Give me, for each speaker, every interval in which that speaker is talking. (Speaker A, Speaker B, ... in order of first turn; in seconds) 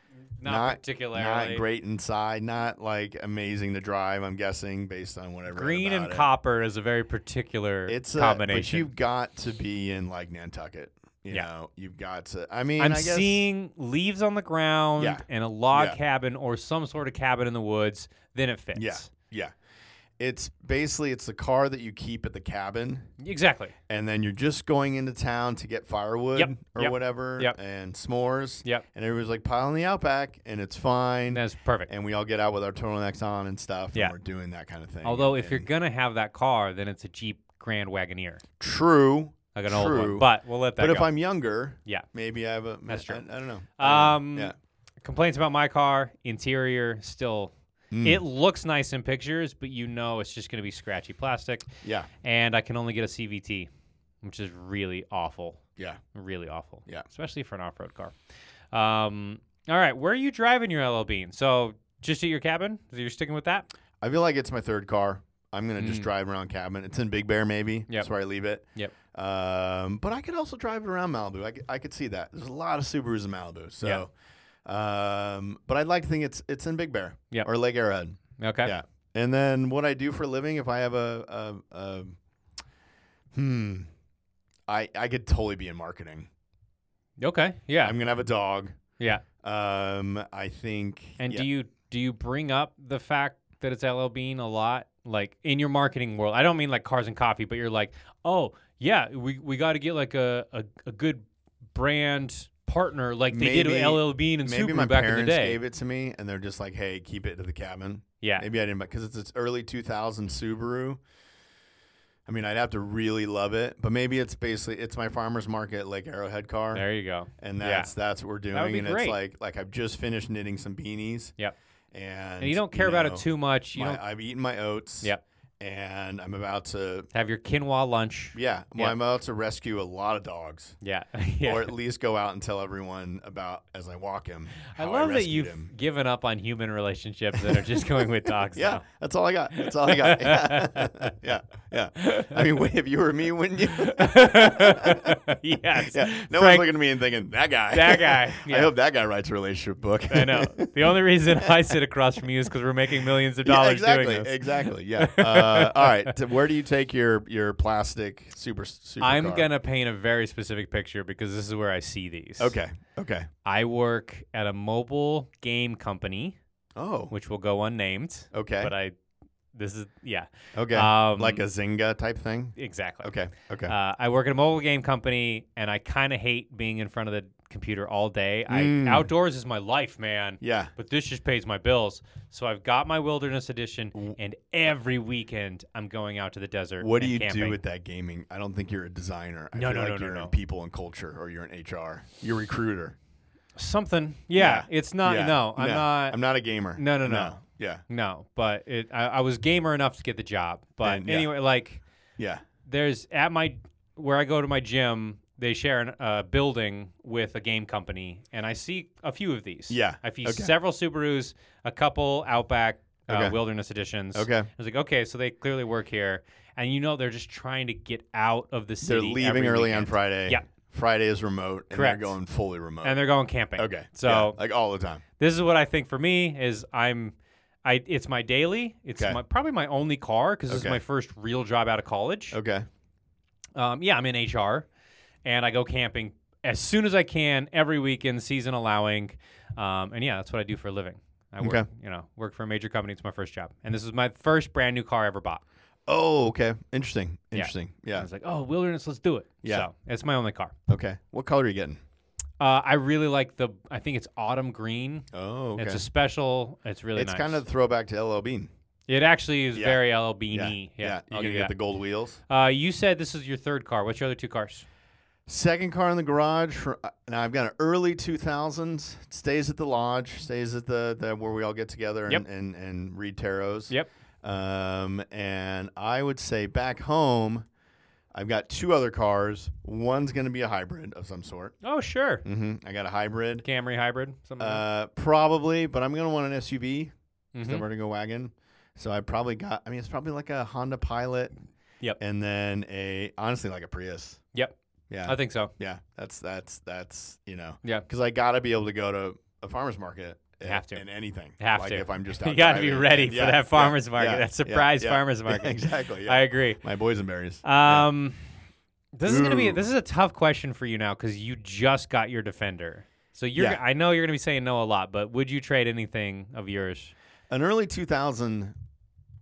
Speaker A: 0.4-1.6, 5.5-8.9, 12.8-19.1, 23.2-23.8, 26.4-27.6, 31.3-31.9, 35.0-38.4, 39.5-41.1, 42.9-43.2, 43.8-51.7, 52.2-53.7, 54.2-55.6, 56.1-58.1, 58.7-63.7, 65.8-66.1, 78.4-78.7, 87.2-88.0, 89.0-89.2, 91.2-105.6, 108.2-108.5, 116.8-117.9, 118.5-119.2, 122.4-124.0, 127.1-129.0, 130.8-131.7, 134.7-138.8, 139.5-141.1, 142.0-142.5, 143.7-146.7, 147.7-148.7, 150.1-156.2, 159.0-162.6, 163.4-166.4, 167.1-168.9, 169.5-171.4, 172.6-173.1, 173.7-187.6, 189.6-190.3, 193.6-196.2, 196.8-201.8, 202.7-220.4, 221.7-222.2, 222.8-224.4, 225.2-232.4, 233.6-234.7, 235.2-245.4, 247.3-250.6, 252.4-257.4, 258.9-261.5, 262.3-264.7, 281.6-282.2, 283.4-284.6, 287.3-287.6, 294.3-295.5, 300.4-300.9, 301.4-306.6, 307.4-308.2, 308.9-316.9
Speaker B: 0.4-6.3, 7.9-13.4, 15.0-16.0, 18.8-19.5, 20.2-23.1, 23.9-35.7, 38.6-40.3, 40.8-44.5, 47.9-48.2, 51.8-52.1, 64.0-74.1, 74.7-82.2, 83.3-83.9, 84.7-86.3, 87.8-88.7, 89.4-91.5, 103.3-111.0, 112.3-116.8, 117.4-121.3, 121.9-127.1, 128.3-130.8, 131.4-135.7, 137.4-145.2, 145.8-150.7, 153.4-159.5, 162.4-163.3, 166.8-167.1, 168.3-168.7, 170.6-173.7, 178.5-179.1, 180.4-180.7, 186.8-193.0, 194.4-197.8, 200.8-201.3, 202.2-202.4, 209.7-210.5, 213.1-213.4, 214.1-214.5, 218.8-223.0, 223.6-225.0, 230.5-230.8, 232.3-232.7, 241.4-241.7, 245.9-248.1, 249.4-249.7, 250.7-251.8, 255.1-255.8, 257.0-258.5, 259.6-259.8, 260.3-262.2, 265.3-277.5, 278.1-281.6, 282.2-283.4, 284.4-291.3, 292.0-294.2, 294.9-307.9, 309.1-309.6, 313.4-313.6, 317.3-318.6